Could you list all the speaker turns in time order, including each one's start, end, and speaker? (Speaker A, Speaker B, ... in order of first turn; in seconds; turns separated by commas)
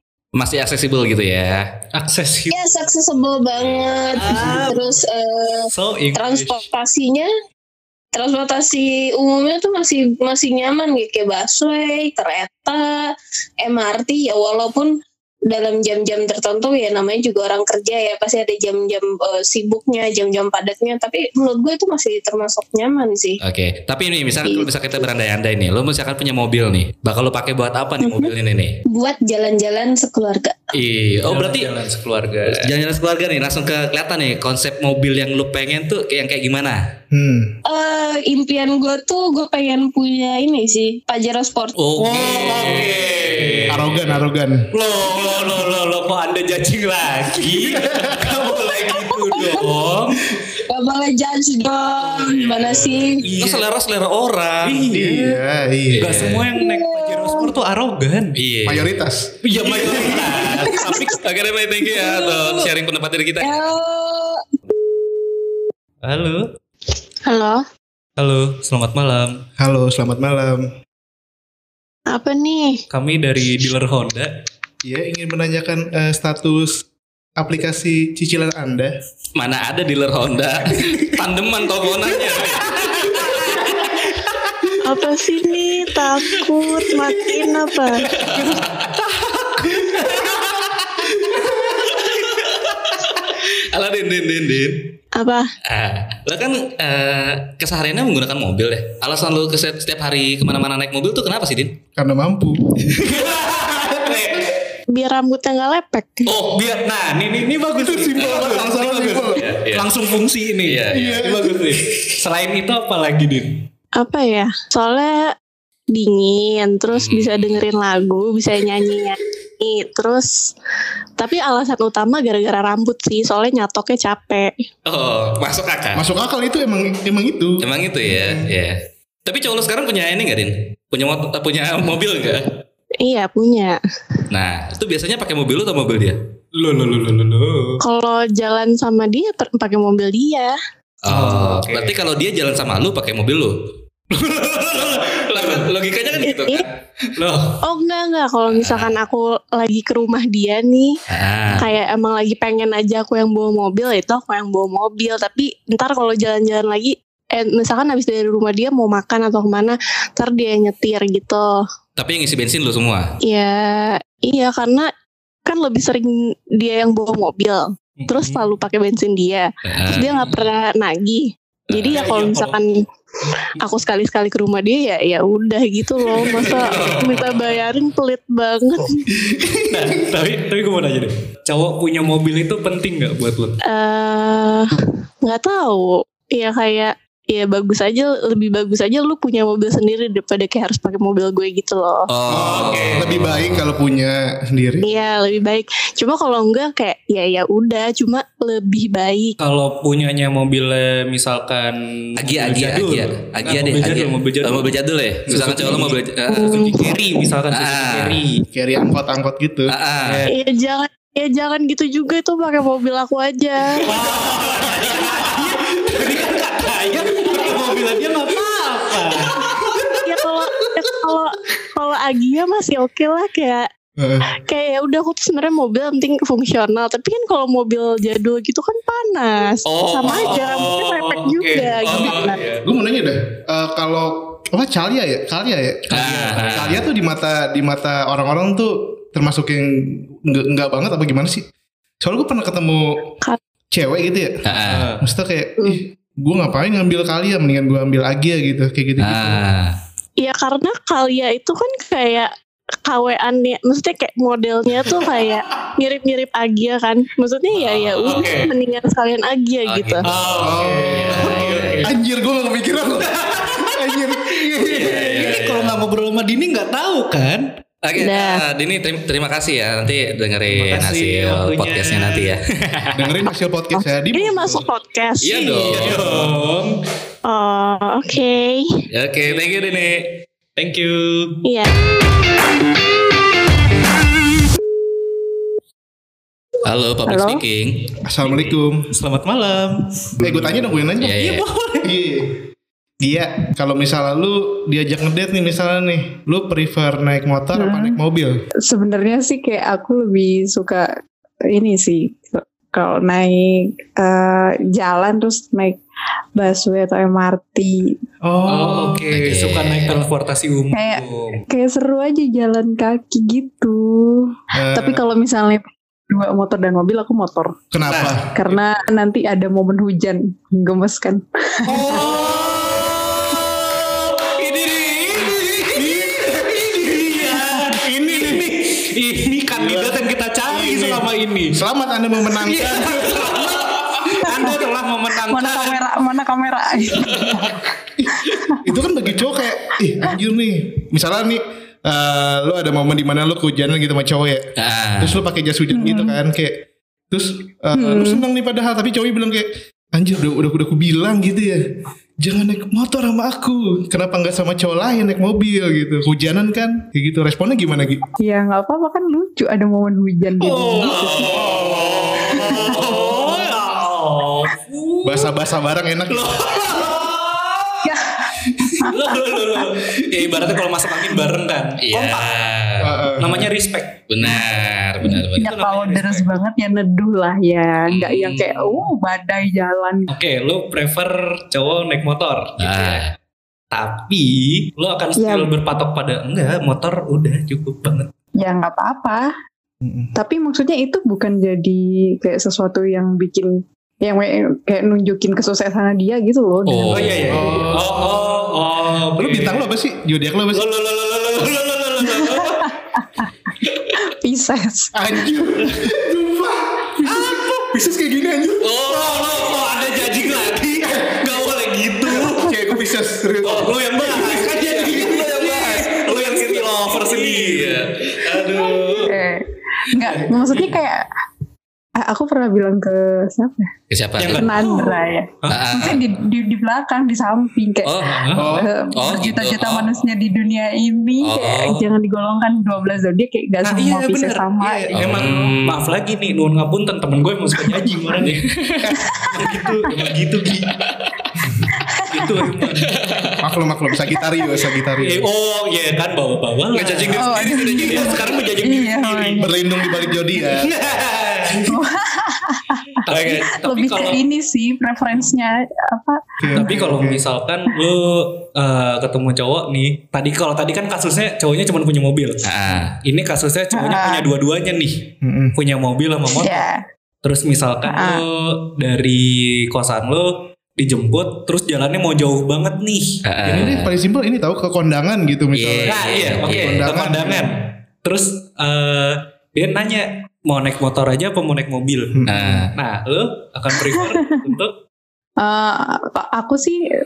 Speaker A: 0.3-1.7, Speaker B: 1.9-2.7, Speaker C: 2.5-7.3, Speaker A: 3.6-3.9, Speaker B: 4.2-4.9, Speaker B: 5.7-6.6, Speaker C: 8.1-13.0, Speaker C: 13.6-14.9, Speaker C: 15.5-23.4, Speaker A: 23.4-28.8, Speaker C: 24.4-24.7, Speaker C: 28.0-28.3, Speaker C: 28.9-30.6, Speaker A: 30.7-31.7, Speaker B: 31.2-32.7, Speaker A: 32.5-36.8, Speaker D: 37.1-37.5, Speaker C: 37.7-41.8, Speaker A: 41.8-44.1, Speaker B: 42.0-43.8, Speaker D: 43.7-44.6, Speaker B: 44.7-50.2, Speaker D: 47.5-48.3, Speaker C: 49.2-49.6, Speaker C: 50.6-53.2, Speaker A: 52.2-54.9, Speaker B: 53.0-53.6, Speaker B: 54.6-55.4, Speaker D: 54.9-56.4, Speaker A: 55.9-56.4, Speaker B: 56.0-58.4, Speaker C: 56.5-57.5, Speaker A: 58.4-59.0, Speaker D: 58.6-60.2, Speaker B: 59.4-61.2, Speaker A: 59.6-63.6, Speaker B: 61.9-62.6, Speaker C: 63.4-64.5, Speaker B: 66.0-66.5, Speaker E: 67.3-67.6, Speaker B: 68.2-69.4, Speaker D: 69.6-70.7, Speaker E: 72.1-72.8, Speaker B: 72.9-74.3, Speaker D: 74.8-76.8, Speaker D: 77.4-78.9, Speaker A: 79.3-84.0, Speaker D: 80.7-81.1, Speaker D: 82.4-83.5, Speaker E: 84.8-88.0, Speaker A: 88.1-88.9, Speaker A: 89.5-94.8, Speaker D: 91.3-91.7, Speaker E: 95.2-95.5, Speaker A: 95.7-101.8, Speaker D: 101.9-102.9, Speaker B: 102.9-104.4, Speaker E: 104.9-106.2, Speaker B: 106.2-113.6, Speaker D: 107.8-109.4, Speaker A: 109.4-109.9, Speaker A: 110.7-111.2, Speaker D: 110.9-111.7, Speaker E: 114.0-115.3, Speaker E: 115.9-120.3, Speaker A: 116.9-117.7, Speaker E: 121.2-124.7, Speaker A: 124.8-126.0, Speaker D: 125.9-128.5, Speaker A: 127.6-132.5, Speaker E: 133.0-133.8, Speaker A: 134.3-136.2, Speaker B: 136.5-137.8, Speaker E: 137.8-140.5, Speaker A: 141.0-143.5, Speaker B: 141.1-141.9, Speaker B: 144.1-145.7, Speaker A: 144.7-146.7, Speaker E: 146.2-146.6, Speaker B: 147.2-147.6, Speaker E: 147.6-150.9, Speaker A: 148.5-149.0, Speaker A: 151.1-151.7, Speaker E: 151.6-161.5, Speaker A: 162.0-163.1, Speaker E: 163.2-164.9, Speaker E: 165.4-172.7, Speaker B: 168.0-168.5, Speaker A: 169.7-170.4, Speaker A: 171.7-172.4, Speaker B: 171.9-172.5, Speaker E: 173.6-179.0, Speaker B: 176.1-177.4, Speaker A: 176.5-177.5, Speaker D: 179.2-180.1, Speaker B: 179.7-183.6, Speaker E: 183.7-192.1, Speaker A: 192.1-193.7, Speaker D: 192.3-194.8, Speaker B: 192.3-193.1, Speaker E: 194.8-199.3, Speaker B: 199.4-204.7, Speaker A: 202.2-206.8, Speaker B: 205.3-208.4, Speaker E: 206.3-206.7, Speaker A: 207.5-208.2, Speaker D: 208.5-209.7, Speaker A: 209.7-210.2, Speaker B: 210.0-210.3, Speaker E: 210.3-213.8, Speaker B: 213.8-219.8, Speaker E: 220.0-223.7, Speaker D: 224.0-224.3, Speaker E: 224.3-232.4, Speaker A: 229.7-230.7, Speaker B: 230.0-232.6, Speaker D: 231.9-241.5, Speaker B: 235.9-236.6, Speaker A: 235.9-236.8, Speaker D: 242.0-243.1, Speaker D: 243.7-244.4, Speaker A: 244.4-244.9, Speaker B: 244.7-245.0, Speaker D: 245.0-249.4, Speaker A: 249.0-249.7, Speaker E: 250.2-252.3, Speaker E: 252.8-260.0, Speaker A: 257.5-258.3, Speaker B: 258.0-258.5, Speaker A: 259.6-261.8, Speaker B: 260.0-261.9, Speaker D: 260.4-265.0, Speaker B: 263.4-263.7, Speaker B: 264.6-267.5, Speaker A: 264.7-265.8, Speaker A: 267.9-273.1, Speaker E: 268.0-268.4, Speaker B: 270.5-272.3, Speaker D: 272.9-274.7, Speaker E: 274.1-275.4, Speaker A: 275.2-276.3, Speaker B: 275.4-276.8, Speaker E: 277.2-278.7, Speaker A: 278.9-280.0, Speaker B: 279.2-279.7, Speaker B: 280.6-281.4, Speaker E: 281.4-281.7, Speaker A: 286.6-287.9, Speaker F: 287.1-287.4, Speaker D: 288.0-288.9, Speaker B: 288.9-291.9, Speaker D: 290.2-291.3, Speaker A: 291.0-291.4, Speaker D: 291.8-292.4, Speaker D: 293.0-298.4, Speaker F: 297.5-298.0, Speaker F: 298.7-300.9, Speaker F: 301.5-305.8, Speaker F: 306.4-308.0, Speaker D: 308.2-309.0, Speaker B: 308.4-311.4, Speaker A: 309.1-310.0, Speaker F: 310.7-317.6, Speaker D: 314.5-315.0, Speaker D: 317.7-318.3, Speaker B: 317.9-318.1, Speaker F: 318.3-322.0, Speaker B: 321.7-331.6, Speaker D: 325.7-327.1, Speaker D: 327.7-328.5, Speaker D: 329.5-333.3, Speaker B: 332.4-335.8, Speaker F: 334.2-334.6, Speaker F: 335.2-337.6, Speaker D: 338.0-351.6, Speaker F: 338.3-338.6, Speaker A: 344.6-345.2, Speaker F: 345.7-346.1, Speaker F: 347.8-348.2, Speaker D: 352.2-358.0, Speaker F: 358.2-361.7, Speaker B: 360.4-365.3, Speaker D: 361.4-361.9, Speaker A: 362.1-362.3, Speaker F: 362.2-363.2, Speaker D: 365.0-366.9, Speaker B: 366.1-367.9, Speaker F: 367.8-368.9, Speaker B: 368.8-372.3, Speaker A: 371.8-373.0, Speaker D: 372.8-373.5, Speaker B: 373.2-374.4, Speaker A: 374.1-375.6, Speaker F: 375.1-380.1, Speaker B: 375.4-376.3, Speaker A: 377.9-378.9, Speaker B: 380.1-383.0, Speaker A: 382.6-383.1, Speaker B: 383.7-388.1, Speaker F: 385.2-385.5, Speaker F: 388.4-389.3, Speaker D: 389.8-390.1, Speaker F: 390.1-397.7, Speaker A: 396.6-397.2, Speaker B: 396.9-399.6, Speaker D: 397.3-398.5, Speaker D: 399.2-400.7, Speaker B: 400.5-402.6, Speaker F: 402.0-403.3, Speaker F: 404.1-404.9, Speaker D: 404.9-408.7, Speaker B: 407.1-407.5, Speaker A: 408.6-410.3, Speaker B: 408.8-412.4, Speaker D: 412.0-415.2, Speaker B: 413.4-419.1, Speaker A: 414.3-419.1, Speaker F: 419.1-421.1, Speaker B: 419.9-420.7, Speaker F: 422.0-423.7, Speaker A: 423.9-424.7, Speaker B: 424.2-425.7, Speaker F: 424.3-435.1, Speaker A: 425.5-426.1, Speaker A: 427.8-429.9, Speaker D: 428.3-428.7, Speaker A: 431.2-431.9, Speaker B: 433.6-440.8, Speaker A: 434.9-435.8, Speaker F: 438.0-438.2, Speaker F: 438.9-439.6, Speaker B: 442.1-443.2, Speaker D: 443.4-445.2, Speaker B: 445.0-449.5, Speaker A: 446.7-448.3, Speaker F: 447.2-449.6, Speaker D: 449.4-450.7, Speaker B: 450.4-451.7, Speaker F: 451.6-456.8, Speaker B: 453.0-454.2, Speaker D: 456.4-457.2, Speaker B: 456.5-462.4, Speaker A: 462.4-463.0, Speaker B: 463.0-466.6, Speaker F: 463.7-464.3, Speaker D: 465.2-465.6, Speaker F: 466.3-466.8, Speaker B: 467.2-473.2, Speaker F: 467.9-468.2, Speaker A: 473.2-473.9, Speaker D: 473.4-477.5, Speaker A: 475.5-476.9, Speaker B: 475.9-482.2, Speaker D: 482.1-482.7, Speaker A: 482.3-482.7, Speaker B: 482.8-484.8, Speaker F: 483.7-484.1, Speaker F: 485.4-486.8